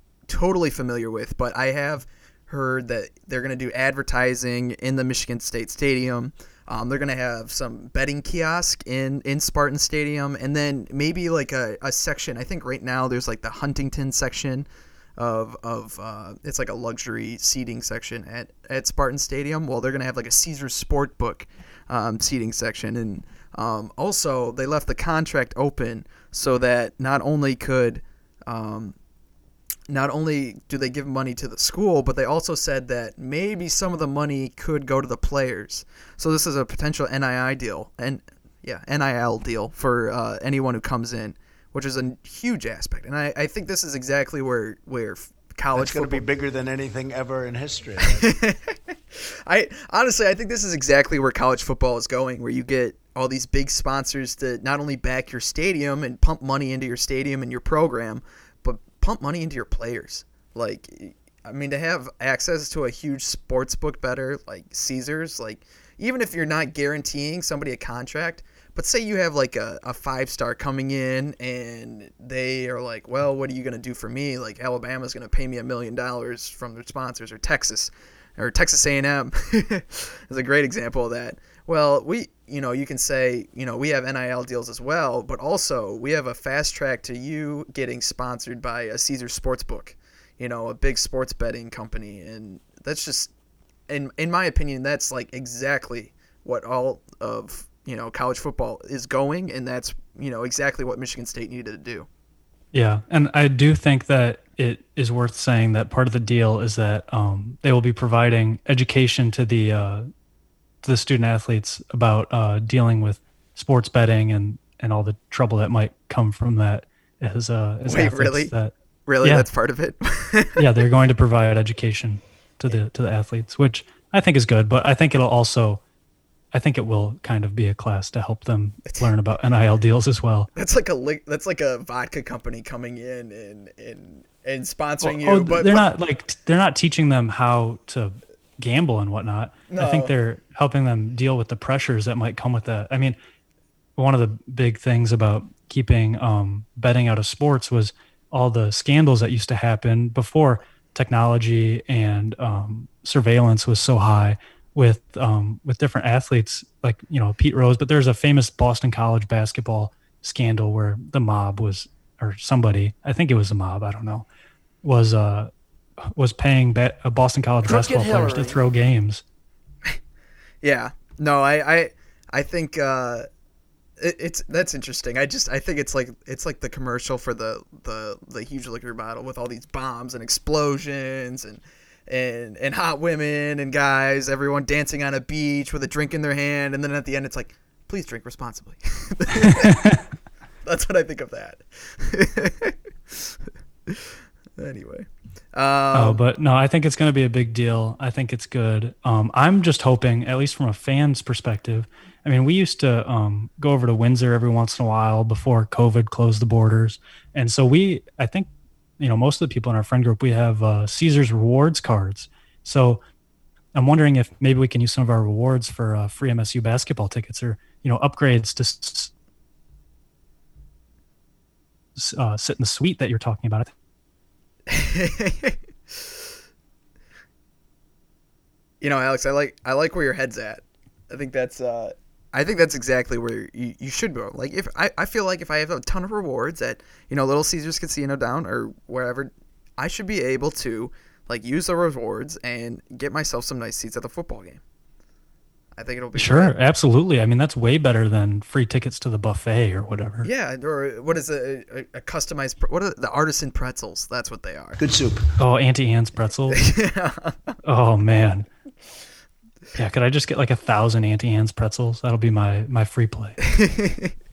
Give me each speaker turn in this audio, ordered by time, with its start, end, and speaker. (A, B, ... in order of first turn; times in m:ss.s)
0:00.3-0:14.7 A
0:15.2-0:29.0 A
0:29.9-0:46.3 A
0:45.7-0:48.4 B
0:48.0-0:48.6 A
0:49.5-1:33.3 A
1:33.9-1:42.1 A
1:42.7-1:50.1 C
1:50.8-1:59.5 C
1:57.8-1:58.5 A
1:59.1-2:00.6 A
2:00.6-2:05.8 C
2:06.5-2:10.5 C
2:10.6-2:15.9 A
2:15.0-2:23.2 C
2:19.7-2:20.1 A
2:24.0-2:44.3 C
2:44.8-2:49.2 C
2:47.7-2:48.5 A
2:47.7-2:48.6 B
2:50.6-2:53.3 A
2:54.0-3:09.8 A
3:09.4-3:10.0 C
3:10.7-3:13.3 A
3:14.6-3:16.2 A
3:15.9-3:33.0 C
3:33.7-3:39.1 C
3:42.0-3:43.7 C
3:44.7-3:46.1 A
3:48.8-4:04.6 A
4:05.8-4:06.6 A
4:06.2-4:10.3 C
4:10.2-4:14.8 A
4:14.8-4:15.3 B
4:15.4-4:16.6 C
4:16.5-4:17.5 A
4:17.6-4:18.5 C
4:19.8-4:23.4 C
4:23.4-4:24.1 A